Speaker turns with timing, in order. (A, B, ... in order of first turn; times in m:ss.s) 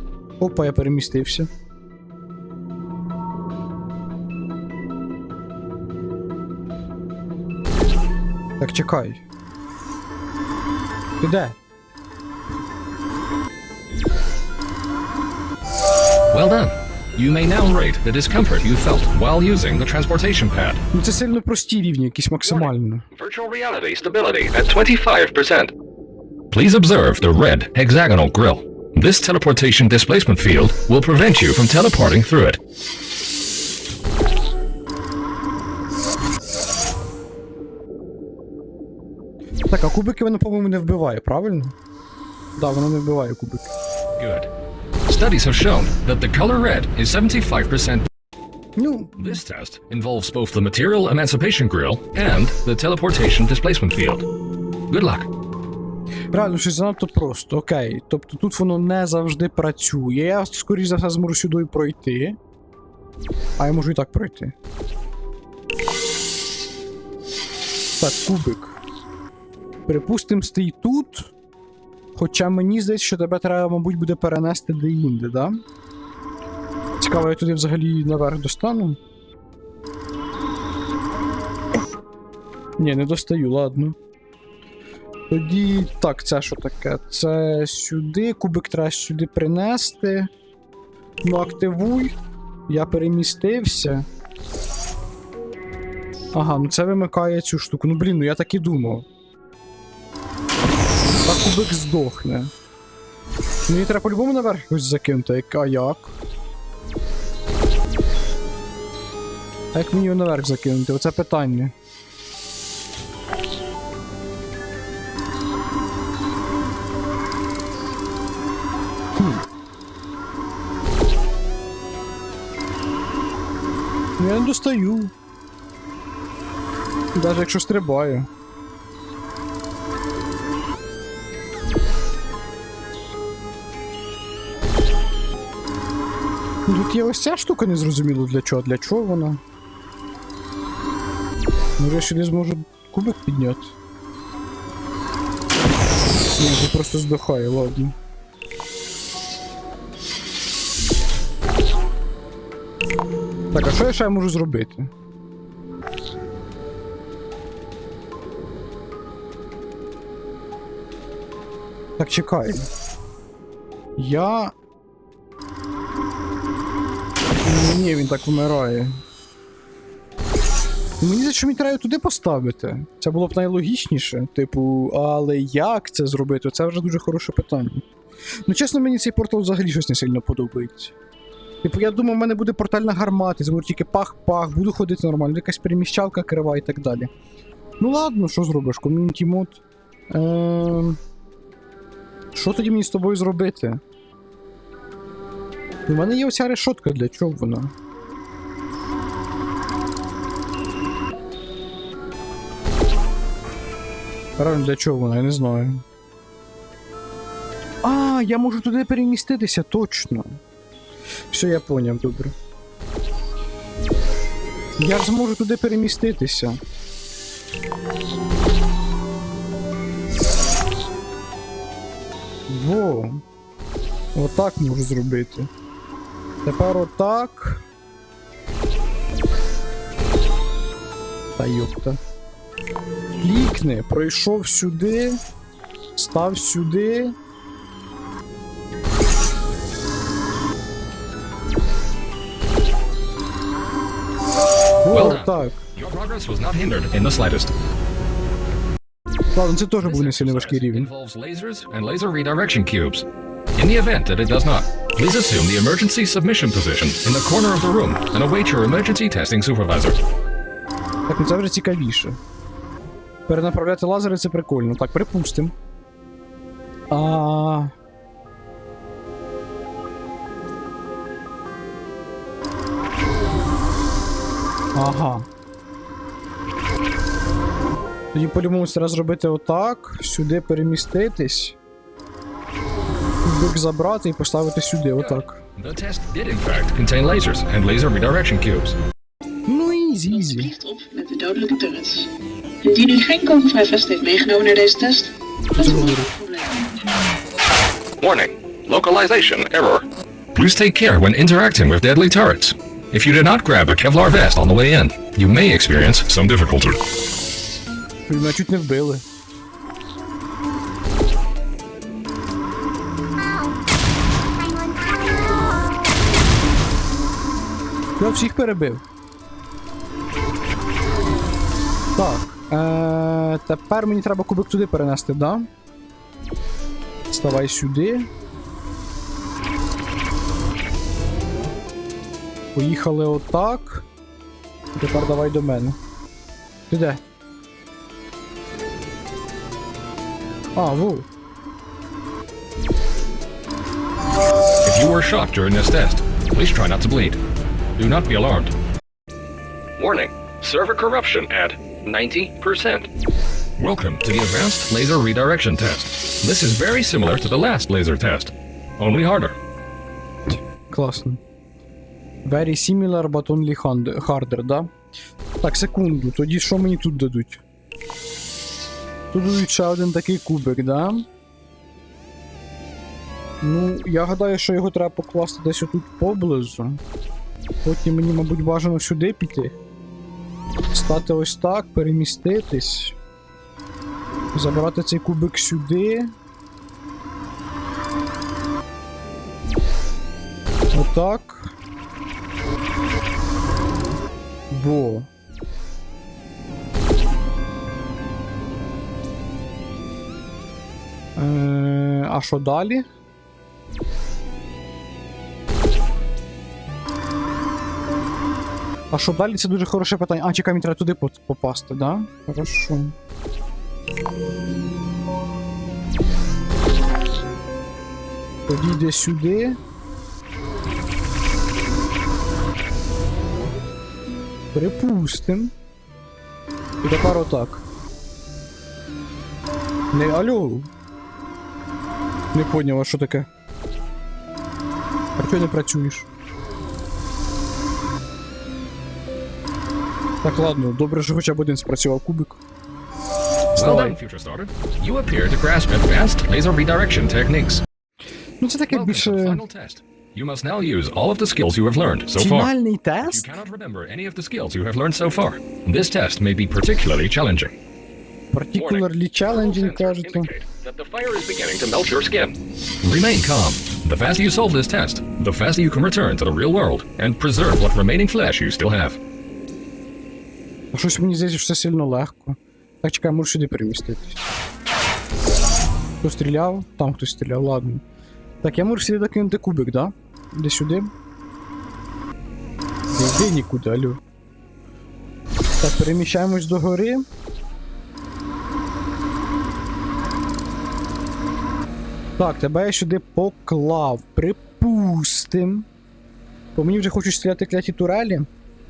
0:00.4-0:01.5 A
0:08.6-0:09.2 A
0:11.2-0:11.6 A
0:16.3-0:20.8 B
0:20.9-0:23.1 A
0:22.4-0:25.7 B
0:26.5-0:32.6 B
0:39.7-0:41.8 A
0:42.6-0:43.7 A
0:44.2-0:44.5 B
0:45.1-0:48.1 B
0:48.8-0:49.4 A
0:49.2-0:54.3 B
0:54.9-0:55.3 B
0:56.3-1:02.4 A
1:03.6-1:04.6 A
1:08.0-1:08.8 A
1:09.9-1:11.3 A
1:12.2-1:15.6 A
1:17.0-1:19.0 A
1:22.8-1:24.0 A
1:25.3-1:30.3 A
1:31.2-1:32.1 A
1:32.7-1:34.1 A
1:36.3-1:39.1 A
1:41.2-1:42.5 A
1:43.7-1:46.2 A
1:49.7-1:51.7 A
1:59.2-1:59.4 A
2:04.2-2:05.1 A
2:07.2-2:08.3 A
2:16.7-2:19.4 A
2:21.8-2:23.8 A
2:26.4-2:28.0 A
2:33.5-2:34.9 A
2:42.0-2:42.7 A
2:44.0-2:44.5 A
2:47.4-2:49.0 A
2:51.0-2:57.9 A
2:58.4-3:00.9 A
3:01.6-3:07.1 A
3:07.8-3:11.0 A
3:12.3-3:13.8 A
3:15.9-3:17.7 A
3:24.4-3:25.8 A
3:27.8-3:30.4 A
3:31.3-3:32.4 A
3:34.8-3:36.6 A
3:42.5-3:43.2 A
3:44.1-3:45.5 A
3:46.4-3:47.6 A
3:51.4-3:52.0 A
3:53.2-3:55.2 A
3:56.0-3:57.2 A
4:04.8-4:05.6 A
4:04.9-4:07.5 B
4:09.4-4:10.9 A
4:09.8-4:20.0 B
4:21.1-4:22.2 A
4:23.3-4:25.5 A
4:26.9-4:27.7 A
4:34.8-4:35.3 A
4:38.1-4:41.6 A
4:43.2-4:45.4 A
4:45.0-4:48.8 B
4:49.5-4:50.5 A
4:50.1-4:52.1 C
4:52.6-4:57.1 C
4:55.6-4:56.1 A
4:58.0-5:06.8 B
5:08.1-5:09.0 A
5:18.0-5:18.8 A
5:22.0-5:25.5 A
5:27.1-5:28.1 A
5:32.5-5:33.9 A
5:34.7-5:35.8 A
5:36.7-5:37.0 A
5:40.6-5:41.1 A
5:44.6-5:47.2 B
5:47.8-5:48.5 B
5:49.8-5:52.9 B
5:53.6-5:59.4 B
6:00.7-6:01.2 A
6:02.2-6:04.7 A
6:05.4-6:07.4 A
6:09.1-6:11.1 A
6:13.4-6:16.8 A
6:17.6-6:19.6 A
6:20.7-6:23.0 A
6:24.3-6:26.1 A
6:30.7-6:31.6 A
6:34.5-6:35.1 A
6:41.2-6:42.9 A
6:48.9-6:53.0 A
6:58.5-6:59.6 A
7:04.5-7:05.5 A
7:06.8-7:07.7 A
7:09.9-7:10.7 A
7:12.3-7:13.3 A
7:15.2-7:16.1 A
7:20.2-7:22.4 A
7:23.6-7:24.0 A
7:23.6-7:27.6 B
7:28.4-7:29.4 A
7:28.7-7:32.5 B
7:32.2-7:33.4 A
7:33.0-7:37.6 B
7:38.3-7:40.3 A
7:38.6-7:49.0 B
7:50.7-7:54.2 A
7:56.0-7:57.8 A
7:58.4-8:00.9 A
8:02.9-8:04.0 A
8:05.6-8:07.0 A
8:12.2-8:15.7 A
8:16.6-8:18.3 A